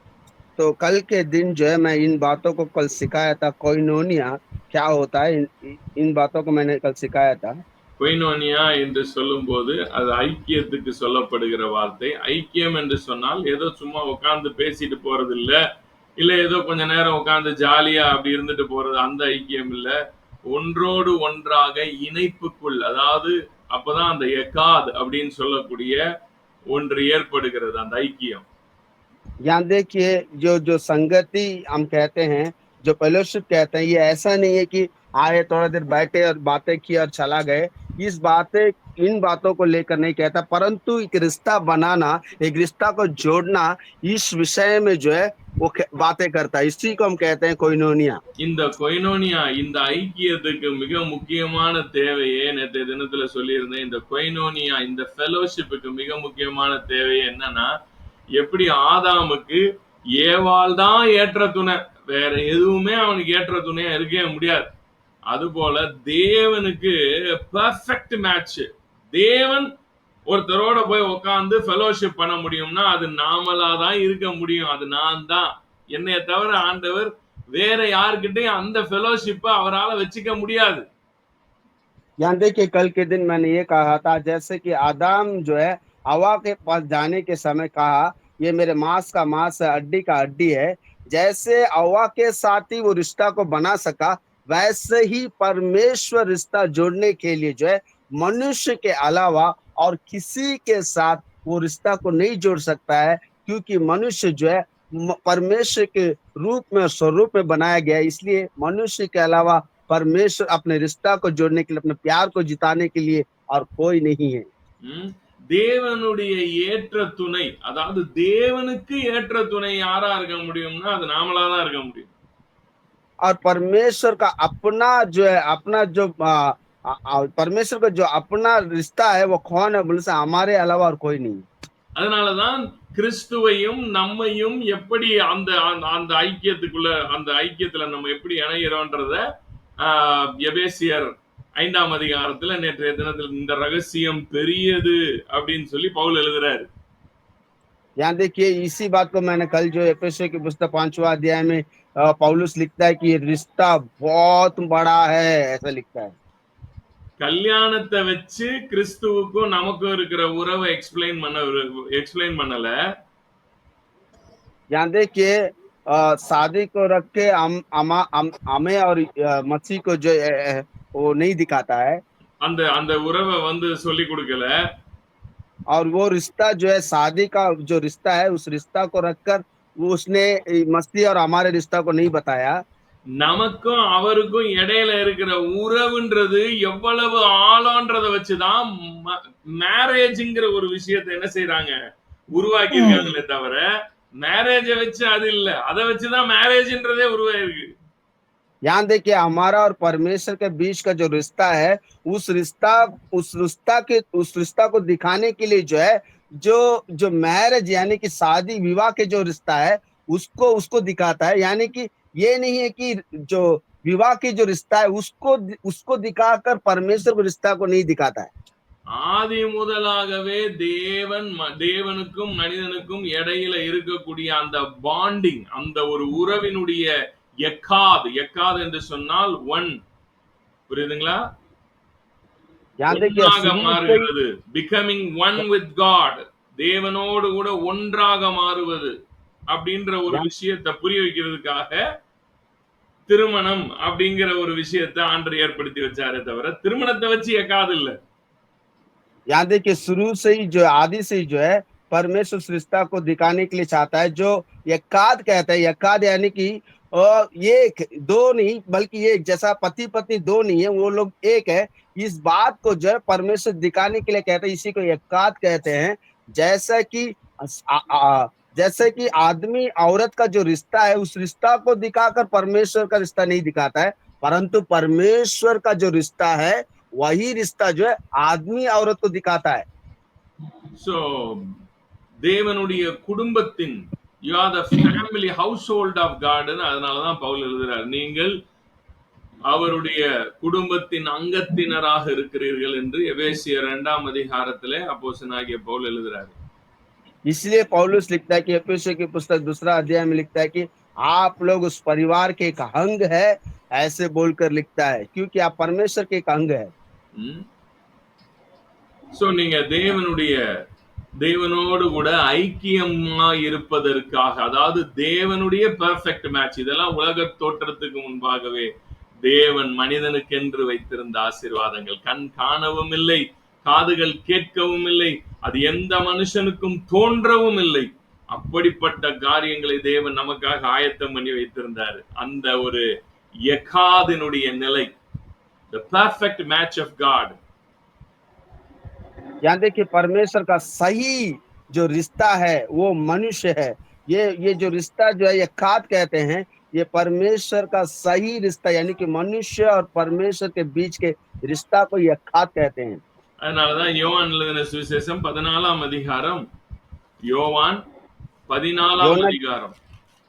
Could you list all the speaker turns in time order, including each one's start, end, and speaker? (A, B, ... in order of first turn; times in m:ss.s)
0:00.6-0:07.5 A
0:08.0-0:15.6 B
0:16.2-0:19.9 B
0:20.5-0:26.0 B
0:26.7-0:28.4 B
0:29.5-0:48.2 A
0:48.4-0:57.7 B
0:58.4-0:59.6 B
1:00.2-1:04.7 B
1:05.3-1:09.7 B
1:10.3-1:20.8 B
1:22.2-1:54.5 A
1:54.9-2:02.1 B
2:03.2-2:11.5 A
2:12.0-2:19.2 B
2:19.8-2:26.7 B
2:28.0-2:36.1 A
2:37.2-2:42.7 B
2:44.7-2:45.4 A
2:45.9-2:52.0 A
2:52.4-2:54.5 B
2:55.7-3:02.6 A
3:03.2-3:11.8 B
3:12.3-3:13.6 B
3:14.2-3:17.7 B
3:18.7-3:38.3 A
3:38.9-3:46.9 B
3:47.4-3:49.8 B
3:50.7-3:51.2 B
3:52.8-3:54.1 A
3:52.9-3:58.9 B
3:59.5-4:01.8 B
4:03.1-4:08.0 B
4:09.3-4:39.7 A
4:40.8-4:41.5 B
4:42.2-4:48.4 B
4:49.5-4:56.4 B
4:57.3-5:06.7 A
5:07.2-5:07.4 B
5:09.1-5:10.4 B
5:11.2-5:18.7 B
5:19.2-5:32.8 B
5:33.5-5:34.9 B
5:35.7-5:37.4 B
5:39.5-5:53.0 A
5:53.4-5:56.4 B
5:57.3-5:57.8 B
5:58.5-5:59.8 B
5:59.0-5:59.4 A